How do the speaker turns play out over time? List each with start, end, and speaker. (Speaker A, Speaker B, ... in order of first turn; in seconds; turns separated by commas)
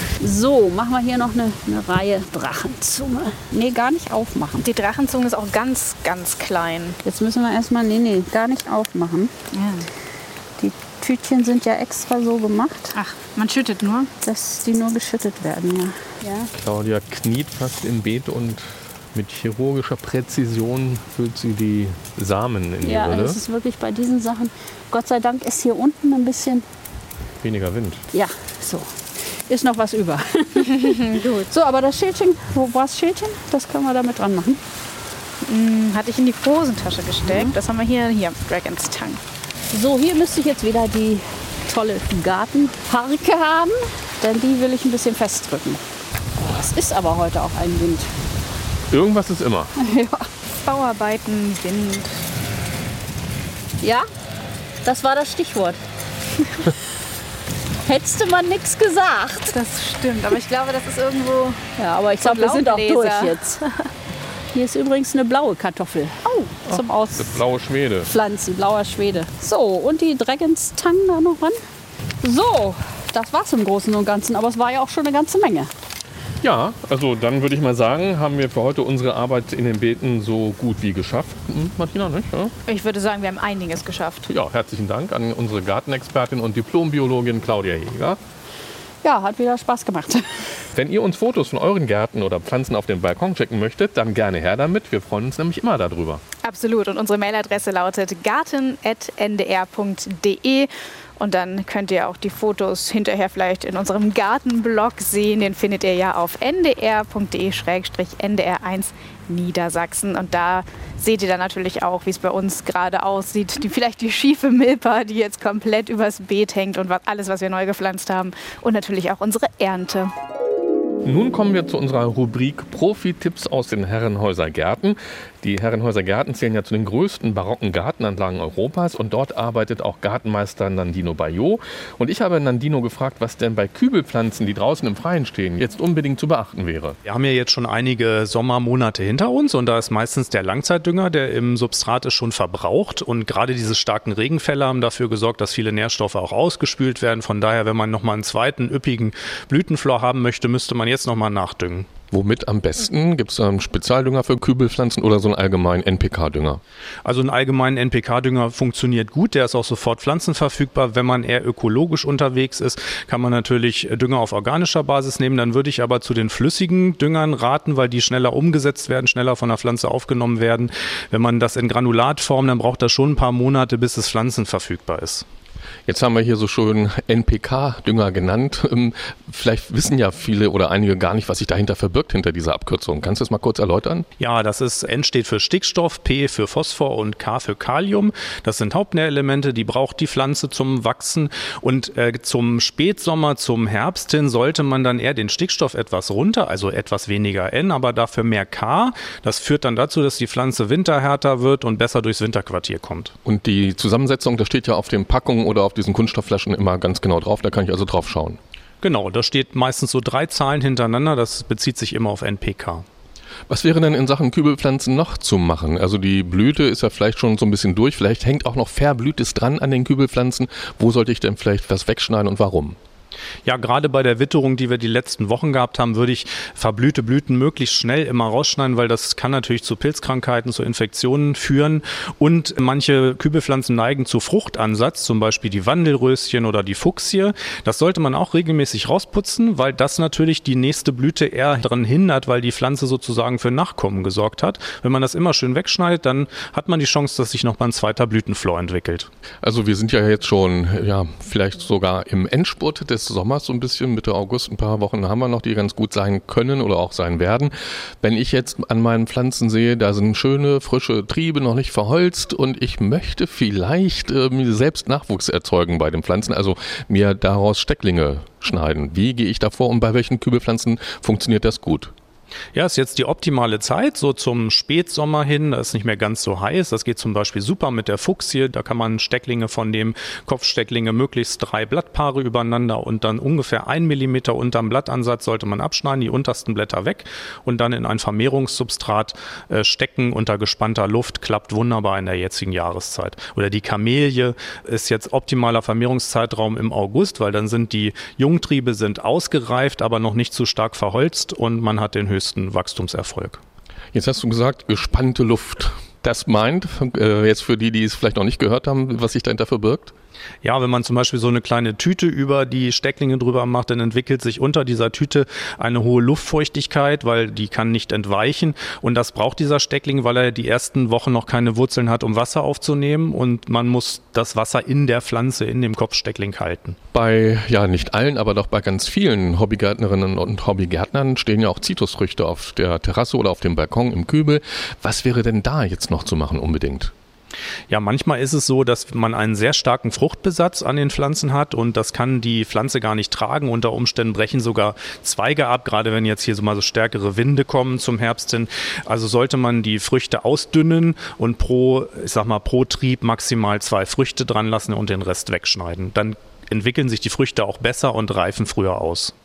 Speaker A: 0.2-4.7, Speaker B: 4.6-7.0, Speaker A: 7.0-9.3, Speaker B: 9.5-9.9, Speaker A: 10.6-13.0, Speaker B: 12.9-14.1, Speaker A: 14.2-16.5, Speaker C: 16.5-23.4, Speaker A: 22.8-26.7, Speaker C: 27.4-28.0, Speaker A: 28.1-34.6, Speaker B: 30.6-31.4, Speaker B: 35.5-39.2, Speaker A: 39.7-45.8, Speaker A: 46.5-48.1, Speaker C: 48.9-49.7, Speaker A: 49.8-50.3, Speaker B: 50.6-52.2, Speaker A: 53.8-54.1, Speaker A: 54.8-55.8, Speaker A: 57.9-59.6, Speaker B: 59.5-61.6, Speaker A: 61.8-63.6, Speaker B: 62.2-63.8, Speaker A: 64.5-67.4, Speaker B: 66.3-66.5, Speaker C: 66.7-68.1, Speaker A: 68.1-71.6, Speaker A: 72.2-75.7, Speaker C: 76.4-82.5, Speaker B: 82.7-84.3, Speaker C: 84.3-88.2, Speaker A: 89.0-90.2, Speaker C: 90.7-96.2, Speaker B: 96.4-120.1, Speaker C: 121.0-137.0, Speaker D: 137.1-151.9, Speaker C: 152.1-156.6, Speaker D: 157.1-175.2, Speaker C: 175.9-184.1, Speaker D: 184.2-203.1, Speaker C: 203.2-208.4, Speaker D: 208.8-212.8, Speaker C: 213.5-222.8, Speaker D: 223.4-249.1, Speaker C: 249.4-271.9, Speaker D: 272.5-303.4, Speaker C: 303.9-309.9, Speaker D: 310.4-326.8, Speaker C: 326.9-336.9, Speaker D: 337.7-359.1